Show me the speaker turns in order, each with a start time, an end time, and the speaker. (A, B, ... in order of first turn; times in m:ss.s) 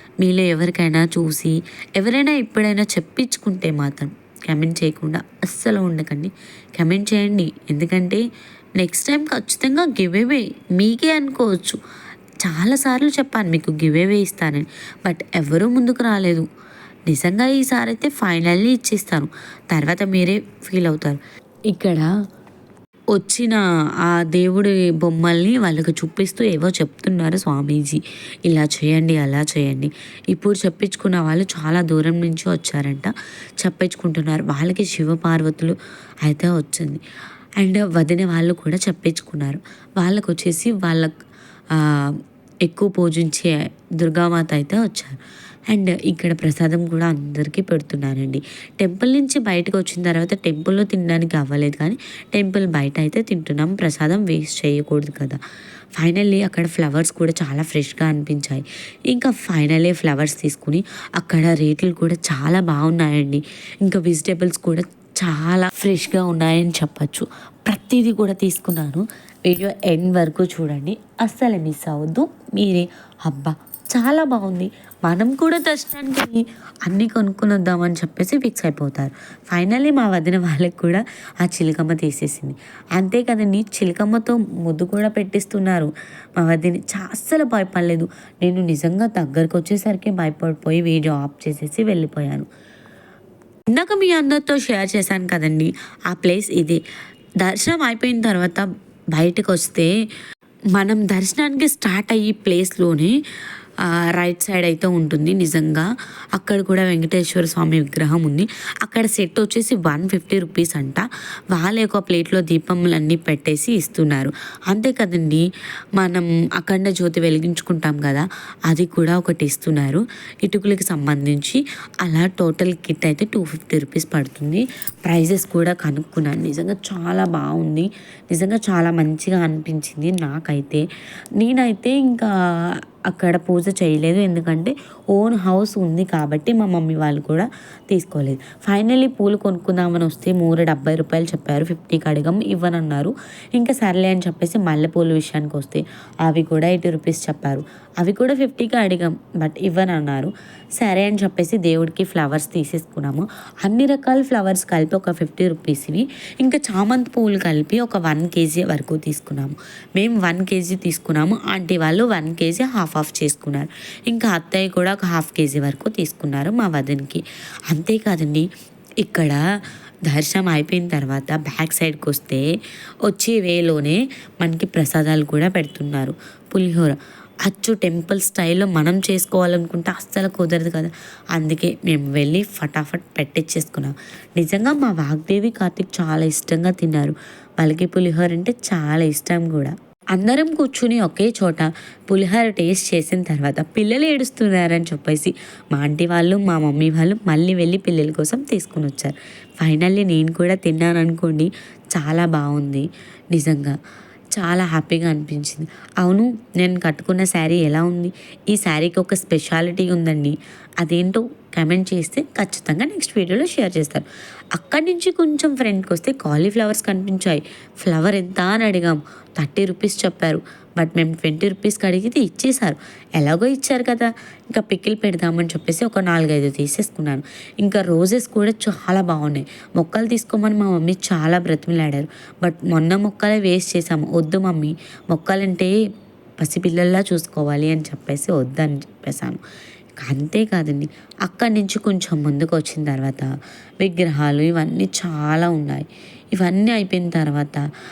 0:00.2-0:08.2 A
0:08.8-0:11.8 A
0:12.4-0:16.4 A
0:17.1-0:21.2 A
0:21.7-0:22.1 A
0:23.1-0:37.0 A
0:37.6-0:41.1 A
0:41.7-0:45.2 A
0:45.7-0:55.4 A
0:56.0-1:32.5 A
1:33.7-1:36.8 A
1:37.4-1:39.9 A
1:40.7-1:43.2 A
1:44.2-1:55.4 A
1:56.0-2:10.8 A
2:11.4-2:12.3 A
2:13.1-2:48.4 A
2:49.0-2:49.4 A
2:50.1-2:52.4 A
2:53.0-3:23.8 A
3:24.3-3:55.7 A
3:56.4-3:59.4 A
4:00.0-4:03.3 A
4:03.8-4:07.6 A